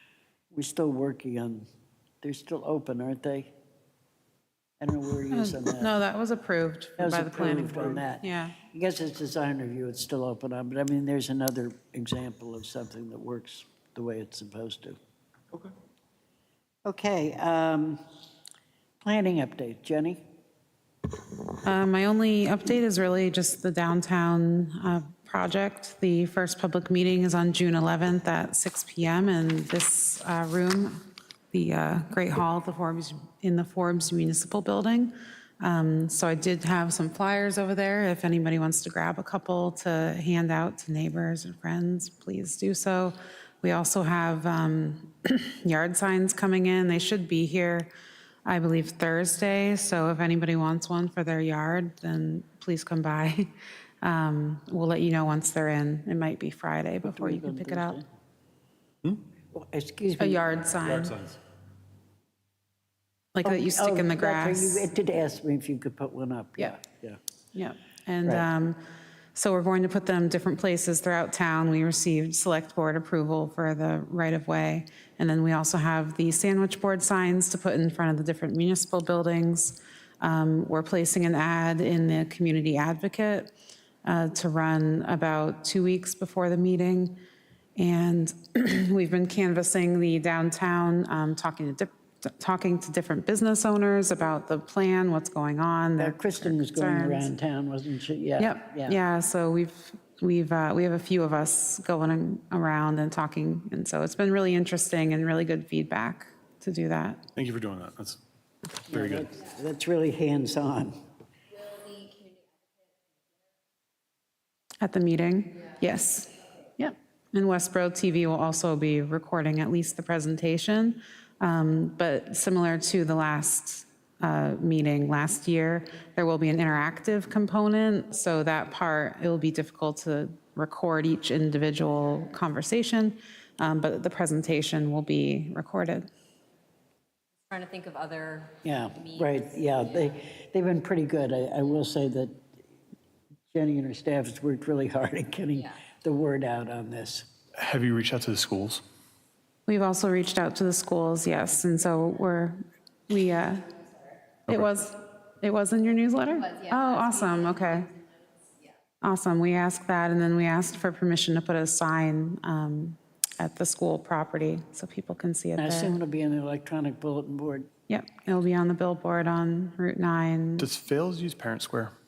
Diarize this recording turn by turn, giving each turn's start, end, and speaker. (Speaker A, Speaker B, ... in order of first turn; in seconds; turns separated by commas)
Speaker A: 0.5-1.7, Speaker A: 2.2-3.5, Speaker A: 4.8-5.9, Speaker B: 5.3-8.6, Speaker A: 7.0-15.0, Speaker A: 16.9-18.0, Speaker A: 19.0-20.2, Speaker B: 21.6-47.9, Speaker B: 48.5-53.5, Speaker B: 54.0-58.0, Speaker A: 57.0-58.1, Speaker A: 59.5-60.6, Speaker B: 60.2-61.2, Speaker C: 60.8-61.4, Speaker B: 63.4-64.9, Speaker A: 63.4-67.2, Speaker B: 67.5-68.8, Speaker B: 69.3-83.5, Speaker B: 84.0-87.2, Speaker B: 87.8-97.3, Speaker A: 96.0-99.0, Speaker B: 98.4-107.2, Speaker C: 107.4-108.2, Speaker C: 108.9-109.3, Speaker A: 108.9-111.0, Speaker D: 111.5-113.2, Speaker B: 114.8-136.1, Speaker D: 137.5-140.2, Speaker A: 138.6-142.5, Speaker A: 143.5-147.3, Speaker D: 145.5-145.8, Speaker C: 147.6-148.8, Speaker B: 149.7-153.8, Speaker B: 154.5-157.9, Speaker D: 156.3-158.8, Speaker B: 159.0-166.0, Speaker A: 165.6-167.7, Speaker B: 167.9-170.7, Speaker C: 170.6-171.9